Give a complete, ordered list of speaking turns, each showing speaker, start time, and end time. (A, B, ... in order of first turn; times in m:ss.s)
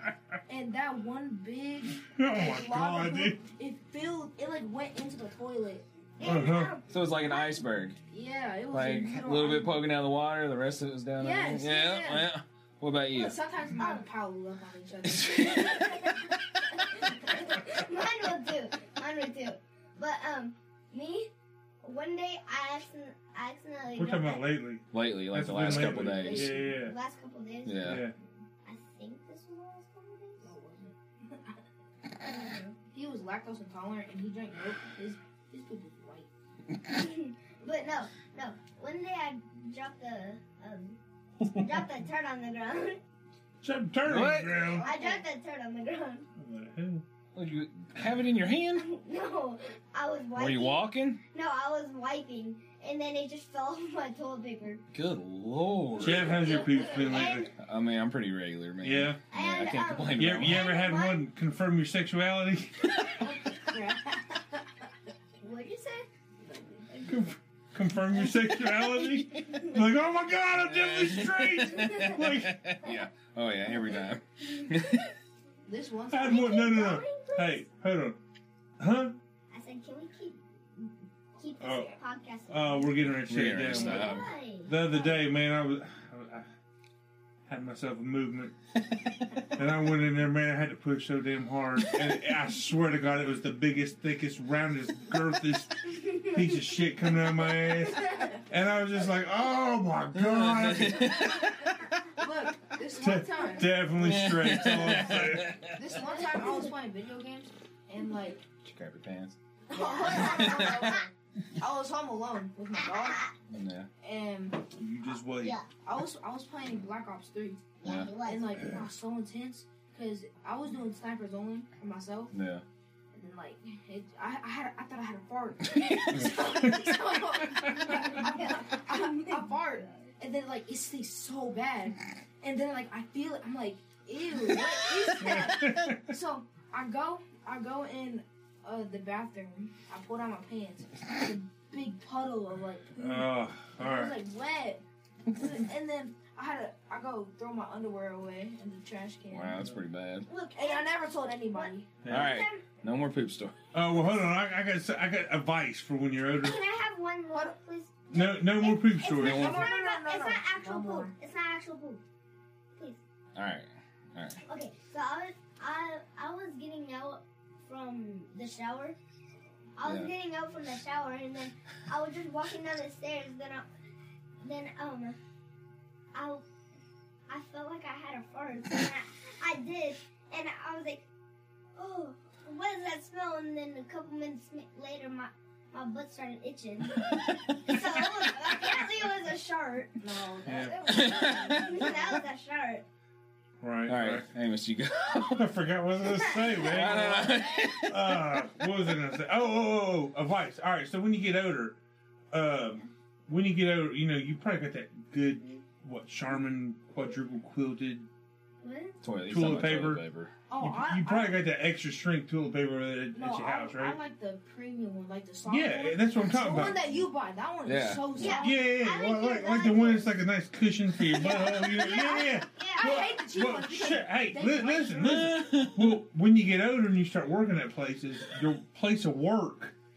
0:00.5-0:05.8 A
0:02.0-0:03.4 B
0:06.2-0:07.6 C
0:06.2-0:06.7 B
0:06.9-0:08.0 D
0:08.1-0:09.8 A
0:08.7-0:13.4 D
0:11.2-0:12.3 A
0:13.1-0:15.8 A
0:13.8-0:14.0 C
0:15.1-0:15.8 D
0:15.3-0:21.3 C
0:21.8-0:24.4 C
0:23.9-0:27.0 B
0:24.9-0:26.8 D
0:25.6-0:30.5 C
0:27.6-0:28.0 D
0:27.8-0:28.1 B
0:30.4-0:31.6 A
0:32.2-0:32.8 C
0:32.9-0:36.3 A
0:36.8-0:43.0 C
0:43.6-0:44.9 B
0:44.0-0:44.9 D
0:44.8-0:46.2 C
0:44.8-0:45.2 A
0:46.4-0:47.0 B
0:47.3-0:48.9 D
0:48.7-0:54.8 C
0:50.3-0:51.2 D
0:54.9-0:56.4 D
0:56.0-0:57.5 C
0:56.0-0:57.5 B
0:57.6-1:00.7 D
0:58.8-0:59.2 B
0:59.3-1:01.3 C
1:00.1-1:03.0 B
1:03.2-1:04.9 A
1:05.4-1:06.1 C
1:06.4-1:07.0 A
1:06.9-1:07.2 C
1:07.0-1:12.6 B
1:08.2-1:09.8 C
1:10.5-1:15.1 D
1:11.7-1:12.2 C
1:14.5-1:15.1 C
1:15.6-1:16.5 A
1:16.1-1:18.2 B
1:16.2-1:17.6 C
1:18.8-1:19.1 B
1:19.5-1:22.9 C
1:21.6-1:22.0 B
1:22.5-1:26.5 B
1:23.2-1:24.3 D
1:23.6-1:25.2 C
1:27.5-1:28.5 B
1:29.5-1:41.3 B
1:40.1-1:41.8 D
1:42.2-1:43.7 A
1:43.0-1:45.6 B
1:44.0-1:45.8 D
1:45.7-1:48.4 A
1:46.1-1:46.7 C
1:48.6-1:49.4 D
1:49.7-1:53.2 A
1:49.7-1:51.0 C
1:50.1-1:50.9 D
1:52.8-1:53.4 C
1:53.5-1:53.9 D
1:54.0-1:54.7 A
1:54.7-1:55.6 B
1:55.4-1:55.7 C
1:55.8-2:02.3 A
1:57.8-1:58.8 C
1:57.8-1:58.1 D
2:02.3-2:02.6 D
2:03.1-2:29.6 A
2:06.1-2:08.0 B
2:07.8-2:10.0 C
2:14.5-2:15.4 C
2:15.2-2:16.0 B
2:23.0-2:24.2 B
2:29.3-2:30.3 D
2:30.3-2:32.6 C
2:30.5-2:31.9 A
2:32.0-2:32.3 B
2:32.1-2:33.5 D
2:33.7-2:36.6 B
2:36.3-2:42.0 C
2:38.1-2:39.6 B
2:39.1-2:39.7 D
2:39.2-2:41.1 A
2:43.3-2:44.4 D
2:44.4-2:49.0 C
2:49.8-2:53.6 C
2:49.8-2:50.1 D
2:54.4-2:55.2 C
2:56.1-2:56.4 C
2:57.3-3:01.0 C
3:01.8-3:10.0 C
3:10.0-3:12.2 A
3:10.4-3:10.8 B
3:10.8-3:12.8 C
3:10.9-3:12.0 D
3:13.6-3:14.3 B
3:13.9-3:15.5 D
3:15.3-3:21.8 B
3:16.0-3:17.0 C
3:16.6-3:18.4 D
3:22.3-3:28.1 B
3:28.6-3:29.0 C
3:29.0-3:30.3 D
3:29.3-3:30.0 B
3:30.5-3:31.4 A
3:30.6-3:34.0 B
3:33.1-3:38.7 A
3:35.5-3:36.8 B
3:37.6-3:38.3 D
3:38.2-3:40.1 C
3:38.3-3:49.7 B
3:41.2-3:45.4 A
3:42.6-3:42.8 C
3:45.2-3:45.9 D